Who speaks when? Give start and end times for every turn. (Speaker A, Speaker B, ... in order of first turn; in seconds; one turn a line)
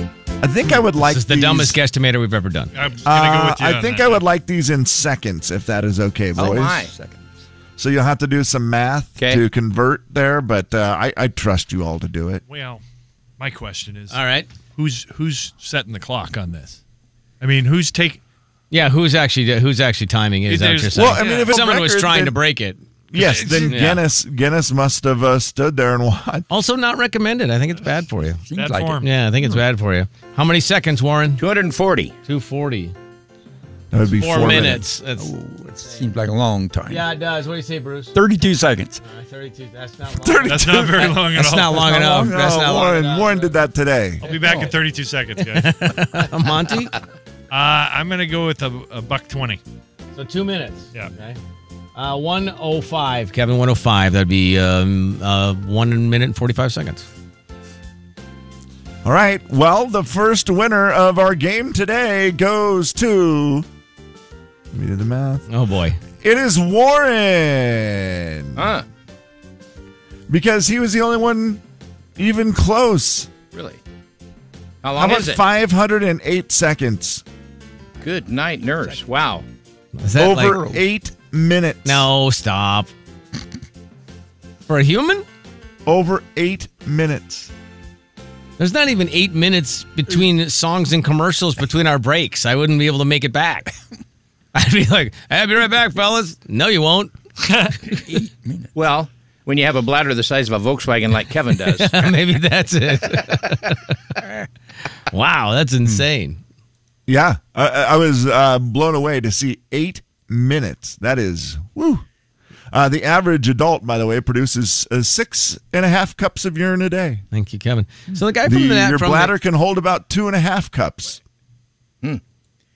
Speaker A: 0.4-1.8
Speaker B: 1.0-2.7
Speaker C: 2.7-4.2
Speaker A: 3.0-6.9
Speaker D: 6.3-6.9
Speaker E: 6.6-7.2
Speaker A: 7.8-12.4
Speaker C: 12.4-12.8
Speaker C: 13.4-14.2
Speaker B: 14.1-14.5
Speaker C: 14.7-16.8
Speaker C: 17.4-18.2
Speaker B: 18.7-22.8
Speaker C: 20.5-21.6
Speaker A: 20.9-22.4
Speaker A: 23.1-26.5
Speaker C: 23.1-23.9
Speaker B: 23.6-24.0
Speaker B: 26.5-28.4
Speaker E: 28.5-29.6
Speaker C: 28.5-29.1
Speaker B: 29.0-31.4
Speaker D: 31.4-32.1
Speaker B: 32.2-32.9
Speaker A: 33.9-34.8
Speaker B: 34.1-35.3
Speaker E: 35.2-37.0
Speaker B: 36.9-38.1
Speaker E: 38.1-39.0
Speaker B: 39.0-43.5
Speaker A: 40.2-41.2
Speaker C: 40.5-42.0
Speaker A: 41.8-44.3
Speaker C: 44.2-45.7
Speaker B: 44.2-44.7
Speaker B: 45.5-46.9
Speaker C: 47.5-49.6
Speaker B: 50.1-51.4
Speaker B: 51.9-57.0
Speaker A: 59.0-63.6
Speaker A: 64.7-65.5
Speaker B: 65.5-66.0
Speaker A: 66.2-68.6
Speaker D: 68.5-68.8
Speaker A: 70.3-71.6
Speaker A: 72.2-73.3
Speaker D: 73.5-73.8
Speaker D: 74.8-75.4
Speaker A: 75.0-77.2
Speaker D: 78.0-79.4
Speaker B: 80.0-80.7
Speaker A: 80.2-82.1
Speaker B: 81.8-82.9
Speaker B: 84.7-85.2
Speaker A: 85.8-87.5
Speaker B: 88.6-93.7
Speaker B: 94.5-97.1
Speaker C: 97.4-97.7
Speaker E: 97.9-98.7
Speaker D: 98.7-102.1
Speaker B: 101.7-104.0
Speaker B: 105.1-106.4
Speaker A: 107.1-112.0
Speaker A: 112.7-117.2
Speaker B: 117.3-119.3
Speaker A: 118.4-121.2